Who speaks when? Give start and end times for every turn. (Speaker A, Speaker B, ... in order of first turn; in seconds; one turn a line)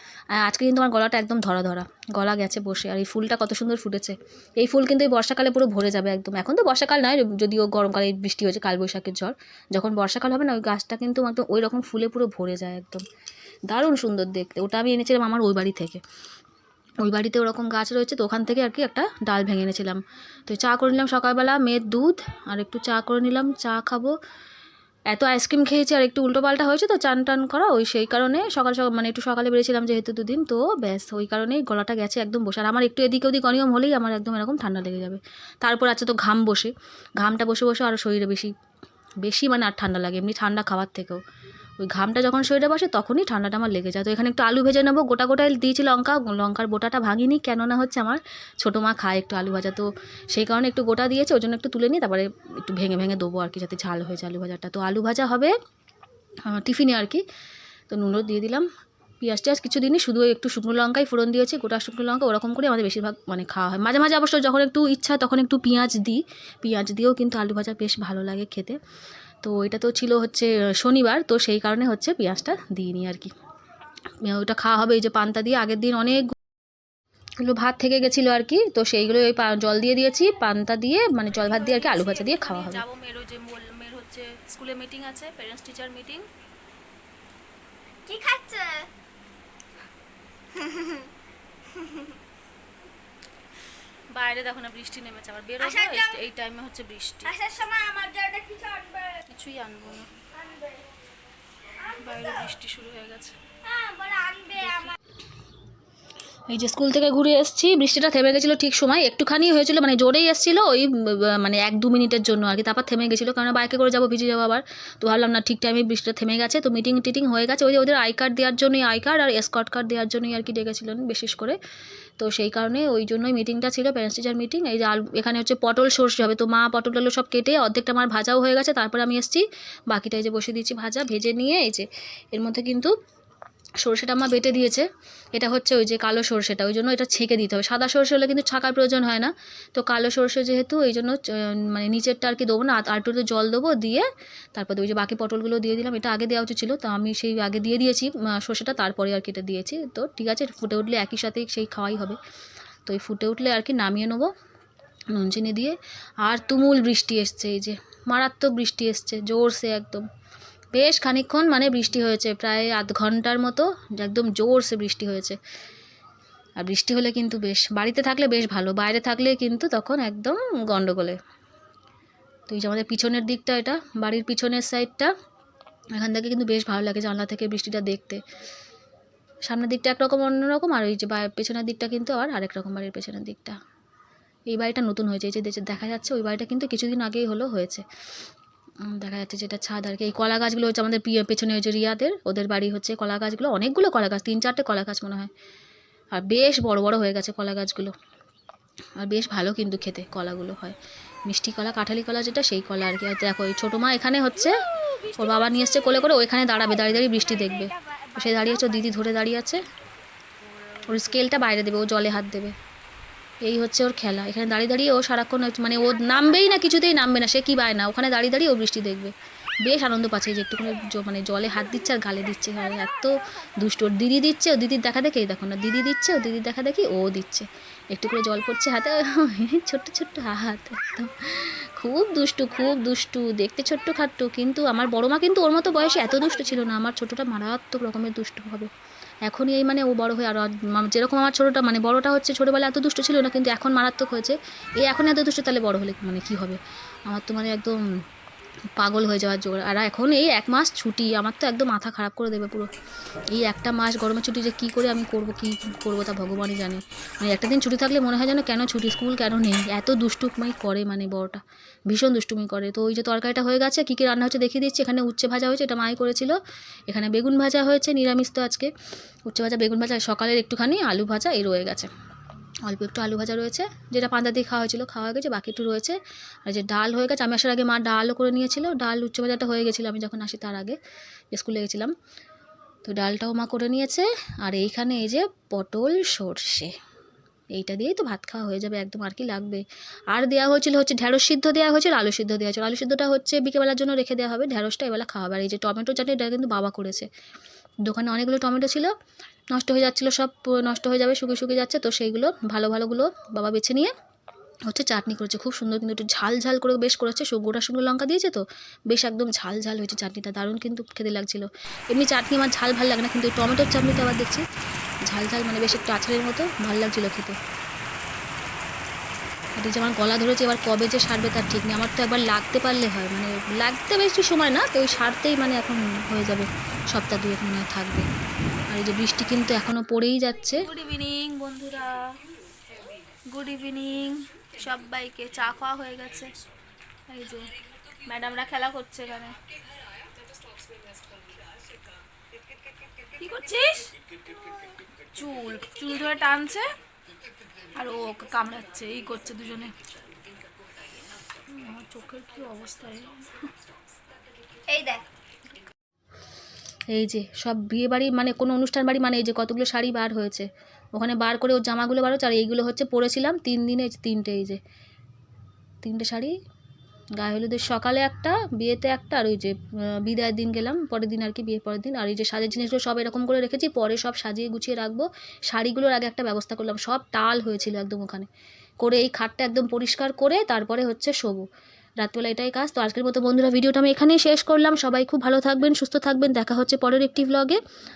Speaker A: 0.4-13.0
Speaker A: 13.7-16.0
Speaker A: 17.0-24.1
Speaker A: 25.1-38.5
Speaker A: 39.2-41.2
Speaker A: 41.8-55.5
Speaker A: 56.5-57.2
Speaker A: 57.9-58.7
Speaker A: 59.2-68.8
Speaker A: 69.4-73.3
Speaker A: 74.2-76.4
Speaker A: 77.4-82.8
Speaker B: 81.3-86.3
Speaker C: 88.1-88.9
Speaker C: 90.5-91.0
Speaker B: 94.1-97.4
Speaker C: 95.6-96.2
Speaker C: 97.3-99.2
Speaker B: 99.2-100.1
Speaker B: 101.9-103.3
Speaker C: 103.6-104.9
Speaker B: 104.5-105.0
Speaker A: 106.5-121.6
Speaker A: 122.2-132.9
Speaker A: 133.8-152.2
Speaker A: 152.9-154.3
Speaker A: 155.1-160.1
Speaker A: 160.7-165.4
Speaker A: 166.6-171.2
Speaker A: 172.5-175.1
Speaker A: 176.0-178.2
Speaker A: 179.5-183.6
Speaker A: 184.5-187.8
Speaker A: 188.8-195.3
Speaker A: 196.1-197.9
Speaker A: 199.0-200.8
Speaker A: 201.3-209.6
Speaker C: 204.9-205.2
Speaker C: 207.3-208.6
Speaker A: 210.9-212.5
Speaker A: 213.4-219.1
Speaker A: 219.6-238.7
Speaker A: 239.3-247.8
Speaker A: 248.8-252.7
Speaker A: 253.3-266.4
Speaker A: 266.9-268.7
Speaker A: 269.3-271.9
Speaker A: 272.6-280.8
Speaker A: 281.3-281.9
Speaker A: 282.9-286.7
Speaker A: 287.5-297.1
Speaker A: 297.9-298.9
Speaker A: 299.5-303.9
Speaker A: 304.7-314.4
Speaker A: 315.1-317.4
Speaker A: 319.6-328.1
Speaker A: 328.7-330.7
Speaker B: 330.6-332.1
Speaker B: 333.3-336.3
Speaker B: 337.1-337.5
Speaker B: 338.1-339.4
Speaker B: 343.2-343.9
Speaker B: 345.1-346.7
Speaker B: 347.8-349.8
Speaker B: 351.5-353.4
Speaker C: 354.7-355.1
Speaker A: 356.9-364.6
Speaker A: 365.8-366.3
Speaker A: 367.2-378.3
Speaker A: 378.8-381.4
Speaker A: 382.0-387.6